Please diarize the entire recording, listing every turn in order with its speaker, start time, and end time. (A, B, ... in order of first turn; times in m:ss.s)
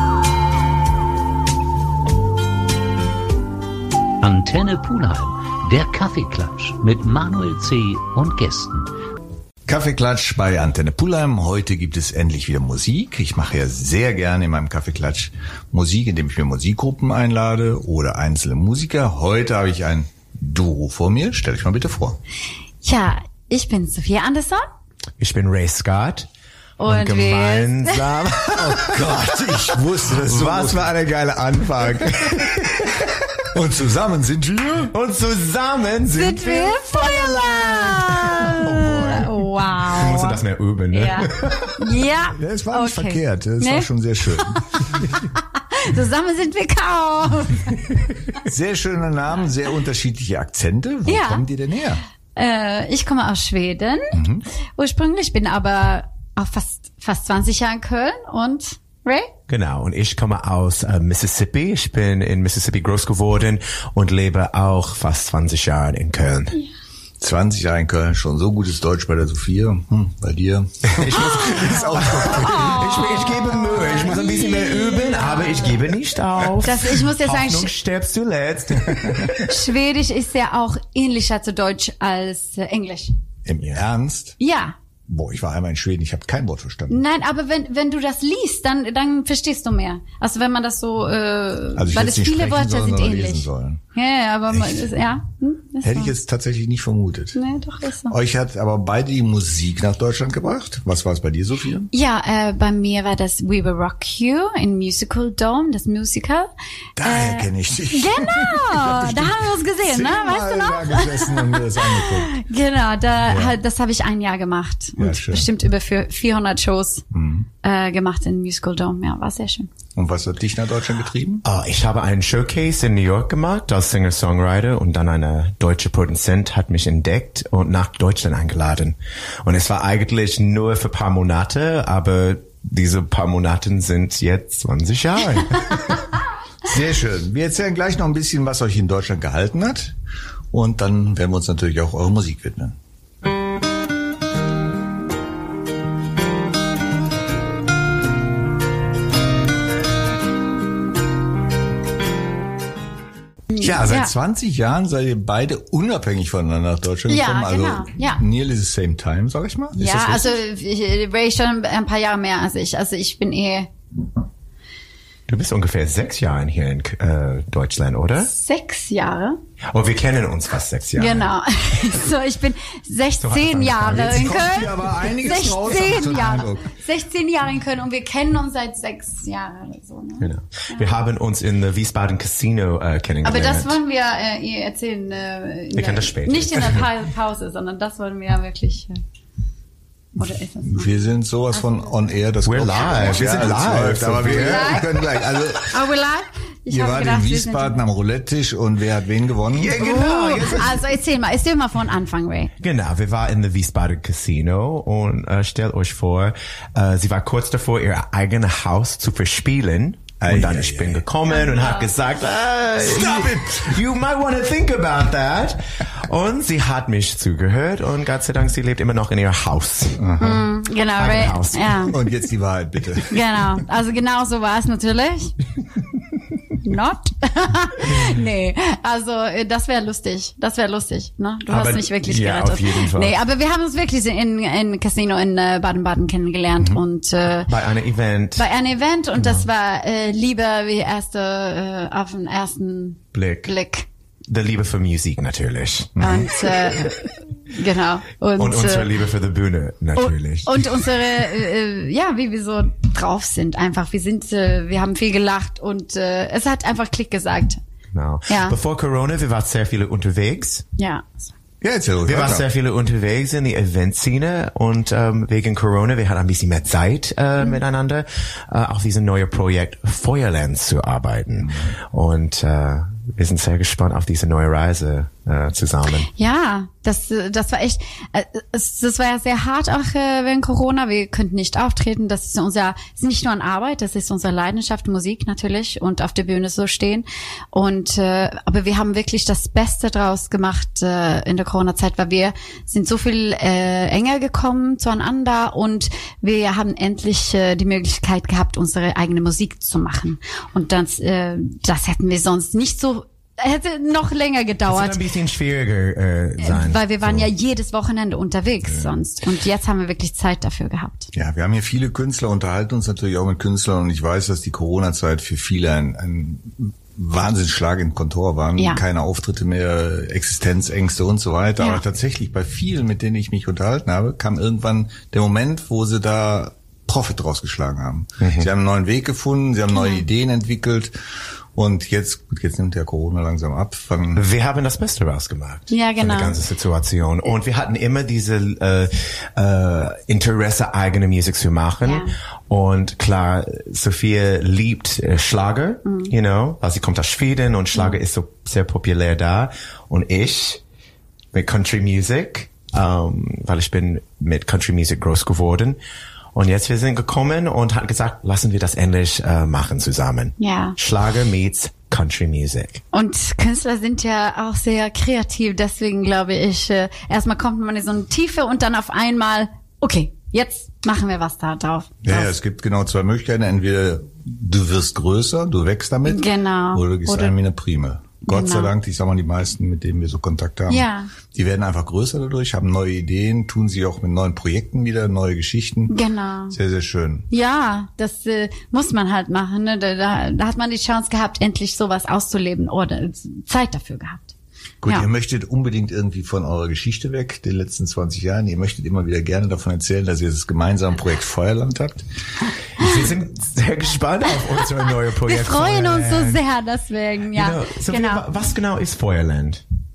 0:04.2-0:08.9 A
0:09.6-0:22.2 B
0:22.8-0:24.6 C
0:25.2-0:26.3 D
0:26.8-0:28.4 C
0:26.8-0:30.9 D
0:28.5-0:32.9 B
0:31.8-0:33.3 D
0:33.5-0:34.9 B
0:34.9-0:42.0 D
0:36.1-0:48.0 C
0:42.3-0:44.8 B
0:48.4-0:52.0 B
0:51.0-0:51.4 C
0:52.3-0:54.2 C
0:54.1-0:54.4 B
0:54.8-0:59.3 C
0:59.5-1:06.6 D
1:07.2-1:12.9 B
1:10.9-1:19.5 D
1:11.2-1:15.8 C
1:16.6-1:17.7 C
1:18.9-1:19.3 B
1:19.4-1:23.1 C
1:23.4-1:24.4 B
1:24.4-1:24.7 C
1:25.1-1:27.0 B
1:26.9-1:36.1 C
1:31.7-1:33.8 B
1:34.5-1:34.9 B
1:35.8-1:37.4 B
1:37.3-1:38.2 C
1:38.1-1:41.9 B
1:41.9-1:46.5 C
1:47.0-1:52.4 B
1:47.0-1:57.0 C
1:53.3-1:53.6 B
1:55.0-1:55.5 B
1:57.1-1:57.5 B
1:57.6-1:59.7 C
2:00.0-2:01.4 B
2:01.4-2:16.1 D
2:16.6-2:19.9 B
2:20.5-2:22.8 B
2:33.5-2:34.1 C
2:33.6-2:40.4 B
2:37.1-2:38.2 C
2:39.8-2:43.7 C
2:45.3-2:48.3 D
2:48.2-2:49.4 C
2:49.7-2:51.3 D
2:51.0-3:00.9 C
2:53.2-2:54.5 D
2:53.8-2:56.7 B
3:00.2-3:03.8 D
3:03.2-3:09.0 C
3:05.7-3:06.9 D
3:10.2-3:10.9 C
3:10.6-3:15.8 B
3:12.4-3:15.1 D
3:13.0-3:13.3 C
3:14.2-3:15.1 C
3:15.6-3:17.8 C
3:16.7-3:19.8 B
3:19.5-3:20.9 D
3:19.8-3:22.5 C
3:22.6-3:40.1 D
3:30.2-3:31.0 B
3:31.3-3:31.9 C
3:32.8-3:33.8 B
3:40.0-3:40.4 B
3:40.2-3:41.9 C
3:41.0-3:41.9 D
3:41.8-3:43.2 B
3:43.1-3:45.4 C
3:46.6-3:57.5 C
3:51.5-3:53.2 D
3:57.4-3:58.5 D
3:58.4-4:03.9 C
3:59.1-3:59.5 D
4:03.1-4:03.5 D
4:04.3-4:06.9 D
4:06.0-4:06.3 B
4:06.0-4:09.0 C
4:08.4-4:11.0 D
4:10.0-4:17.6 C
4:17.9-4:20.6 D
4:18.3-4:18.6 C
4:20.8-4:21.3 C
4:21.6-4:22.4 B
4:22.0-4:36.1 D
4:31.4-4:31.7 B
4:36.1-5:05.0 C
5:04.6-5:07.3 D
5:06.4-5:11.1 C
5:08.6-5:08.9 B
5:11.1-5:30.9 B
5:18.6-5:18.8 C
5:28.2-5:28.5 D
5:29.7-5:30.0 C
5:31.5-5:34.2 B
5:34.1-5:50.6 D
5:35.7-5:36.4 C
5:41.8-5:42.1 C
5:45.8-5:46.1 C
5:51.3-5:55.8 D
5:56.3-6:02.8 D
6:00.4-6:00.8 C
6:02.9-6:12.3 C
6:12.0-6:25.9 B
6:16.0-6:17.3 C
6:18.2-6:18.7 C
6:20.7-6:21.1 C
6:25.9-6:26.6 C
6:26.5-6:27.3 B
6:27.3-6:34.3 C
6:34.8-6:42.0 B
6:42.8-6:46.4 D
6:44.6-6:48.3 C
6:47.3-6:49.6 D